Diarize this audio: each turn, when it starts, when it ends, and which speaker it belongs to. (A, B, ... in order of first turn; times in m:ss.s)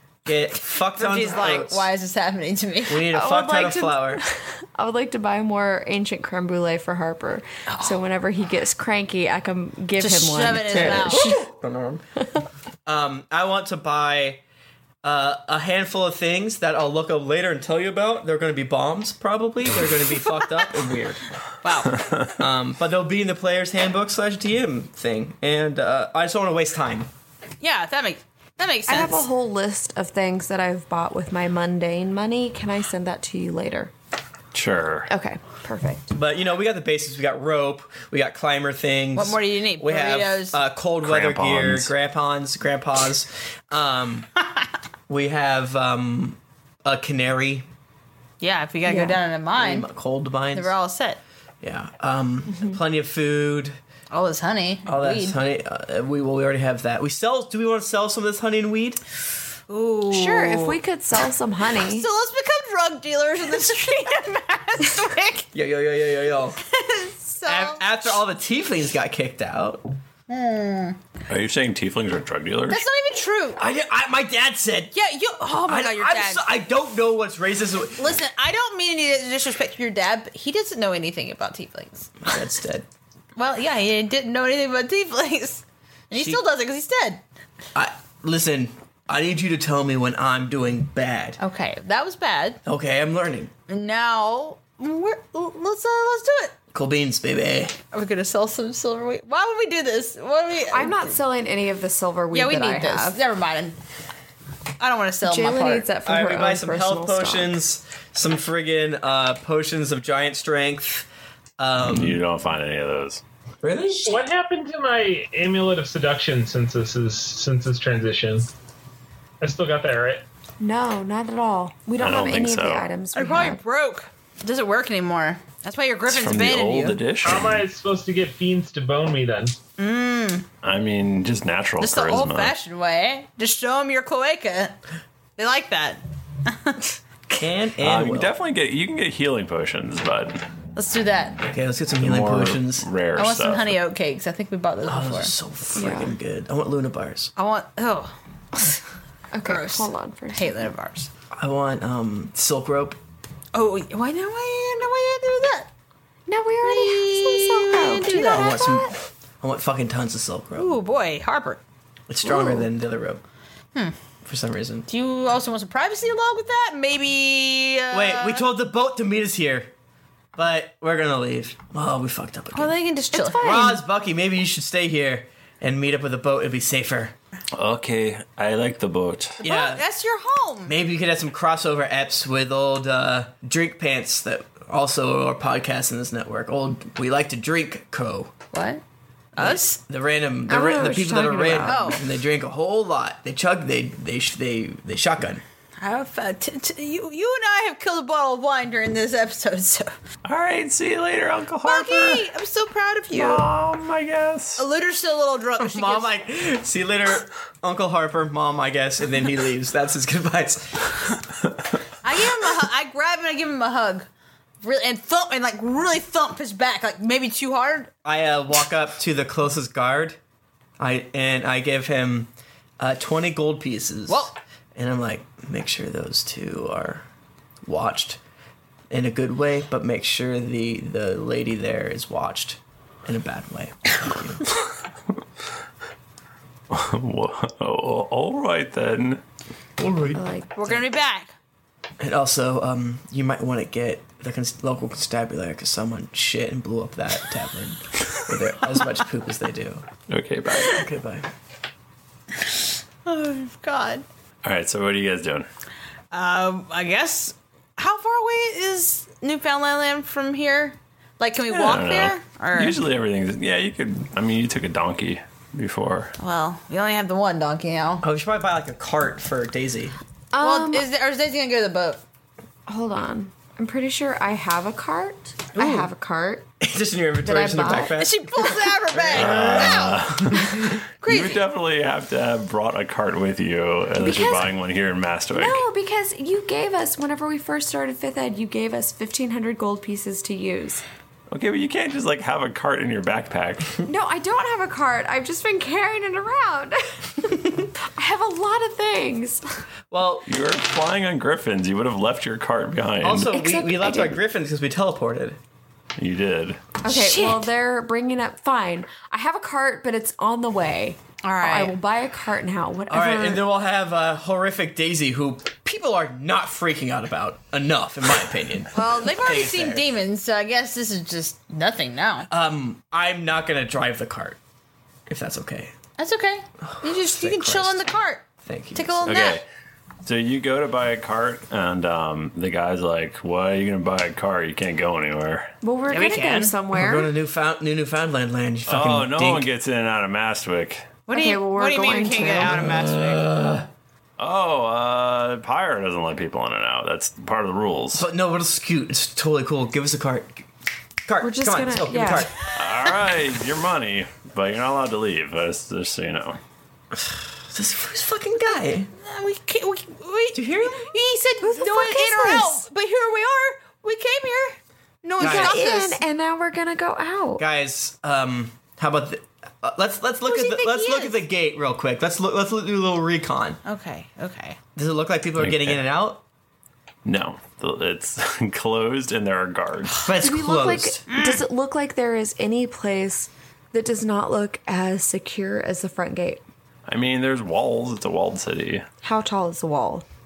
0:00.3-0:01.9 A
0:00.7-0:03.1 B
0:02.9-0:04.2 A
0:03.1-0:11.4 C
0:07.7-0:08.0 B
0:10.0-0:11.3 B
0:10.7-0:12.0 A
0:12.9-0:14.4 A
0:15.0-0:21.2 A
0:21.6-0:22.0 B
0:22.0-0:22.2 D
0:22.4-0:27.1 A
0:27.6-0:29.3 B
0:28.9-0:33.9 C
0:34.5-0:35.1 D
0:35.1-0:36.1 C
0:36.1-0:44.3 A
0:39.2-0:40.6 B
0:41.0-0:41.9 D
0:45.1-0:47.7 A
0:48.4-0:49.9 B
0:48.9-0:49.2 C
0:49.5-0:50.7 A
0:50.5-0:51.2 B
0:51.6-0:53.8 A
0:52.5-0:52.8 C
0:54.1-0:55.4 B
0:54.9-0:59.0 A
0:59.7-1:00.8 B
1:00.1-1:02.1 C
1:01.7-1:05.5 B
1:05.5-1:06.6 A
1:06.7-1:08.2 B
1:07.4-1:09.8 A
1:10.3-1:11.0 B
1:11.3-1:12.8 D
1:12.7-1:13.6 B
1:13.6-1:14.9 A
1:14.9-1:16.5 B
1:15.7-1:18.0 A
1:18.0-1:22.4 B
1:22.2-1:22.9 A
1:23.4-1:27.2 B
1:26.1-1:26.4 A
1:27.8-1:31.4 A
1:31.4-1:32.6 B
1:32.6-1:33.5 A
1:33.7-1:36.6 B
1:36.7-1:37.8 A
1:37.9-1:41.1 B
1:40.7-1:43.2 C
1:42.3-1:43.8 B
1:44.8-1:45.9 B
1:45.2-1:47.6 C
1:46.0-1:51.1 A
1:51.6-1:52.2 A
1:51.8-1:53.2 D
1:53.6-1:54.2 A
1:54.0-1:58.5 E
1:59.4-2:00.2 E
2:00.6-2:03.6 C
2:02.0-2:02.9 D
2:03.1-2:07.0 B
2:06.1-2:07.7 D
2:07.2-2:09.6 E
2:09.8-2:10.5 B
2:10.6-2:12.5 D
2:11.8-2:14.8 B
2:15.4-2:16.8 B
2:17.4-2:18.4 A
2:17.7-2:20.4 D
2:20.8-2:21.4 B
2:21.5-2:22.9 A
2:22.0-2:23.8 D
2:23.2-2:25.3 B
2:24.8-2:27.3 A
2:25.8-2:26.2 C
2:27.4-2:28.1 B
2:29.3-2:30.7 C
2:29.4-2:31.1 B
2:31.4-2:33.0 A
2:33.5-2:35.7 B
2:36.3-2:38.9 C
2:36.6-2:38.6 B
2:38.2-2:40.7 A
2:40.6-2:41.6 B
2:42.1-2:43.2 A
2:42.2-2:42.6 C
2:44.2-2:44.9 A
2:44.9-2:48.5 B
2:47.9-2:49.7 A
2:50.4-2:52.8 A
2:52.5-2:53.8 B
2:53.1-2:53.8 C
2:53.4-2:57.1 A
2:57.6-2:59.4 D
2:59.4-2:59.8 A
2:59.4-3:00.8 B
3:00.7-3:08.3 A
3:08.5-3:08.8 B
3:09.4-3:15.4 A
3:09.4-3:09.8 B
3:10.5-3:12.0 C
3:11.6-3:12.0 B
3:15.8-3:19.9 B
3:20.2-3:22.3 D
3:21.6-3:23.5 B
3:23.1-3:24.6 D
3:24.6-3:26.1 B
3:25.6-3:30.8 A
3:32.0-3:34.1 B
3:34.6-3:37.9 B
3:38.0-3:40.2 A
3:40.8-3:47.0 A
3:47.6-3:48.2 A
3:48.9-3:54.4 A
3:56.7-3:59.2 D
3:59.8-4:00.8 A
4:00.1-4:00.7 C
4:00.6-4:01.3 B
4:02.0-4:09.8 A
4:10.1-4:10.8 D
4:10.6-4:11.3 A
4:12.4-4:14.0 B
4:14.4-4:15.5 D
4:16.1-4:22.8 B
4:21.5-4:26.1 D
4:26.2-4:28.0 B
4:28.0-4:30.0 A
4:30.3-4:30.9 C
4:30.4-4:32.0 B
4:32.7-4:36.5 C
4:35.6-4:35.9 A
4:36.6-4:40.1 A
4:37.2-4:38.0 C
4:38.0-4:40.0 B
4:39.1-4:45.6 D
4:41.0-4:41.4 B
4:44.0-4:44.5 C
4:45.3-4:50.8 C
4:51.3-4:53.7 D
4:53.9-4:59.4 C
4:59.9-5:00.3 A
5:00.3-5:03.3 D
5:03.0-5:05.4 A
5:03.3-5:04.2 C
5:06.0-5:06.6 D
5:06.8-5:13.5 C
5:06.9-5:07.5 B
5:11.2-5:11.8 B
5:12.9-5:19.9 A
5:18.7-5:22.3 B
5:22.3-5:24.4 A
5:25.1-5:25.7 A
5:26.0-5:29.4 B
5:26.6-5:29.2 A
5:29.0-5:29.4 D
5:30.0-5:35.5 D
5:35.6-5:37.1 C
5:35.9-5:36.6 B
5:36.7-5:39.5 A
5:38.7-5:41.0 D
5:41.1-5:43.2 B
5:41.1-5:42.7 C
5:42.4-5:43.7 A
5:44.2-5:48.1 D
5:47.9-5:50.4 A
5:51.1-5:52.3 A
5:51.2-5:52.3 C
5:52.6-5:56.4 D
5:56.9-5:58.9 A
5:59.0-6:06.0 B
6:00.3-6:00.9 A
6:01.4-6:02.7 C
6:05.2-6:05.7 A
6:05.2-6:07.4 C
6:07.4-6:13.6 A
6:10.2-6:11.2 B
6:13.6-6:14.6 B
6:14.8-6:16.2 A
6:15.4-6:15.9 D
6:17.0-6:20.0 D
6:20.0-6:21.0 A
6:20.2-6:26.4 C
6:21.1-6:21.4 B
6:26.9-6:28.8 D
6:29.0-6:30.0 C